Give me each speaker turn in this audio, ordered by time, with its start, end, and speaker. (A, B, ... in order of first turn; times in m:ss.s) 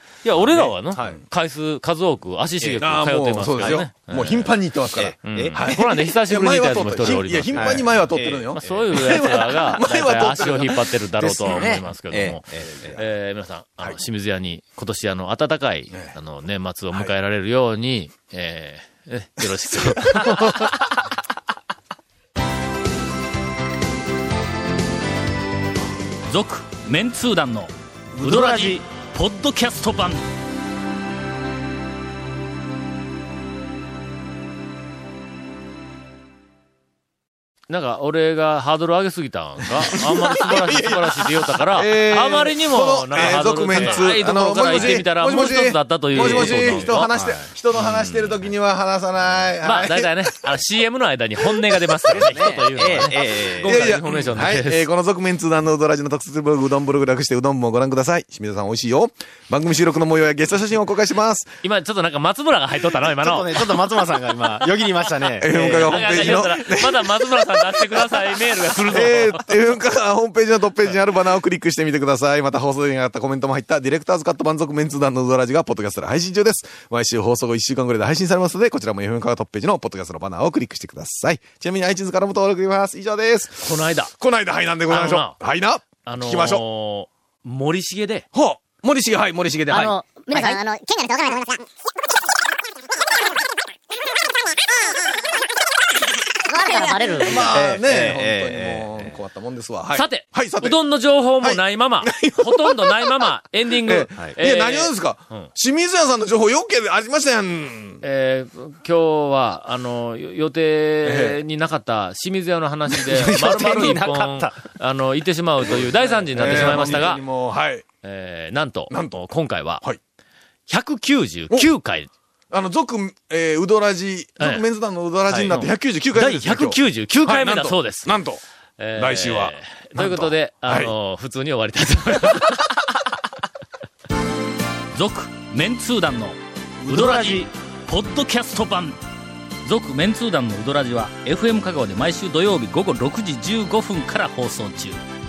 0:00.2-0:04.6 A
0:00.6-0:01.2 B
0:00.9-0:01.2 C
0:02.8-0:10.8 B
0:03.6-0:03.9 C
0:05.0-0:05.7 C
0:05.2-0:20.8 A
0:07.5-0:09.8 C
0:11.2-0:13.0 C
0:11.5-0:11.7 B
0:26.4-0:27.7 D
0:28.2-0:28.8 C
0:28.2-0:28.8 A
0:29.2-0:30.2 D
0:37.7-0:47.1 A
0:39.8-0:50.3 B
0:43.3-0:44.0 C
0:46.2-0:48.1 C
0:49.6-0:54.9 A
0:52.1-0:53.8 C
0:53.6-1:01.5 B
1:01.6-1:03.9 A
1:03.2-1:06.4 C
1:05.4-1:08.2 B
1:05.6-1:09.5 A
1:08.8-1:26.6 B
1:23.6-1:24.1 A
1:24.9-1:25.4 A
1:26.0-1:28.3 A
1:28.3-1:30.0 B
1:29.7-1:31.7 E
1:36.5-1:37.8 E
1:37.2-1:40.8 B
1:37.2-1:39.2 C
1:39.9-1:45.5 A
1:41.4-1:43.3 B
1:43.8-1:48.0 B
1:48.0-1:57.2 A
1:51.0-1:51.4 B
1:52.9-1:54.6 C
1:55.6-1:57.8 B
1:56.4-1:57.2 C
1:58.0-1:59.8 A
1:58.9-1:59.3 B
2:00.7-2:02.1 A
2:02.5-2:08.4 B
2:05.3-2:08.2 A
2:08.8-2:12.8 A
2:09.0-2:10.9 B
2:15.0-2:16.4 D
2:16.8-2:17.4 B
2:16.9-2:19.0 D
2:19.7-2:25.0 D